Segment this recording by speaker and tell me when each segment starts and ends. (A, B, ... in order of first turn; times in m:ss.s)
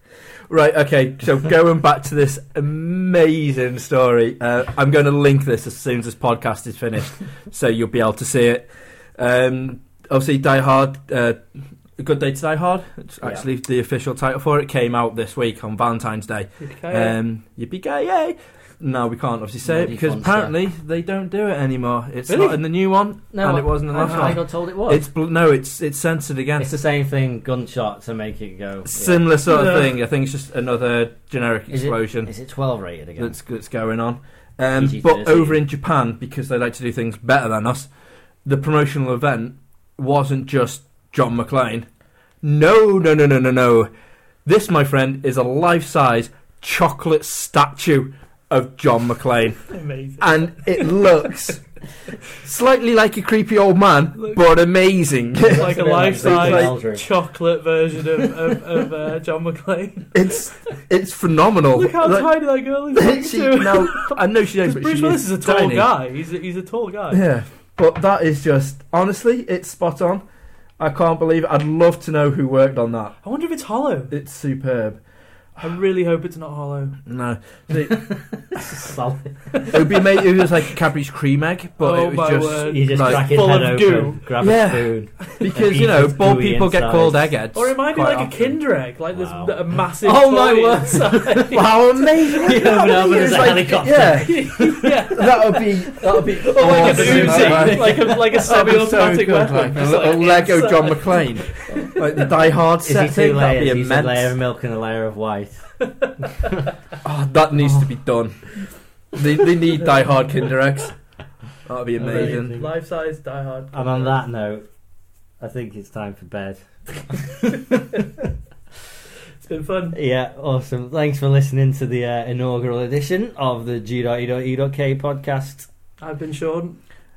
0:00.5-0:26.8 A
0:16.6-0:17.2 B
0:19.6-0:20.6 C
0:22.3-0:22.6 C
0:23.3-0:25.1 C
0:24.0-0:24.4 B
0:26.6-0:29.3 C
0:28.9-0:32.3 A
0:29.5-0:29.9 B
0:31.7-0:33.4 C
0:33.2-0:37.9 A
0:34.8-0:35.6 C
0:38.4-0:41.9 A
0:42.4-0:43.9 A
0:44.4-0:51.6 A
0:49.7-0:51.2 B
0:52.3-0:56.8 A
0:54.2-0:54.4 B
0:55.4-0:57.1 C
0:55.5-1:00.3 B
1:00.1-1:02.3 A
1:01.7-1:07.2 B
1:02.9-1:06.0 A
1:07.1-1:10.2 A
1:10.8-1:13.2 A
1:13.2-1:14.2 B
1:14.1-1:15.0 A
1:15.6-1:17.0 B
1:17.1-1:18.1 A
1:17.8-1:19.7 C
1:19.7-1:23.3 A
1:21.8-1:24.3 B
1:22.6-1:27.3 C
1:24.4-1:28.5 A
1:27.5-1:31.8 B
1:29.1-1:35.2 C
1:31.5-1:44.3 A
1:32.4-1:42.3 B
1:36.5-1:38.2 C
1:42.8-1:45.8 C
1:47.0-1:48.6 A
1:49.1-1:51.0 A
1:51.6-1:52.6 A
1:52.0-1:52.8 C
1:52.1-1:54.2 B
1:53.7-1:54.7 C
1:55.4-1:58.1 C
1:59.4-2:00.0 B
1:59.9-2:05.7 C
2:06.0-2:06.8 B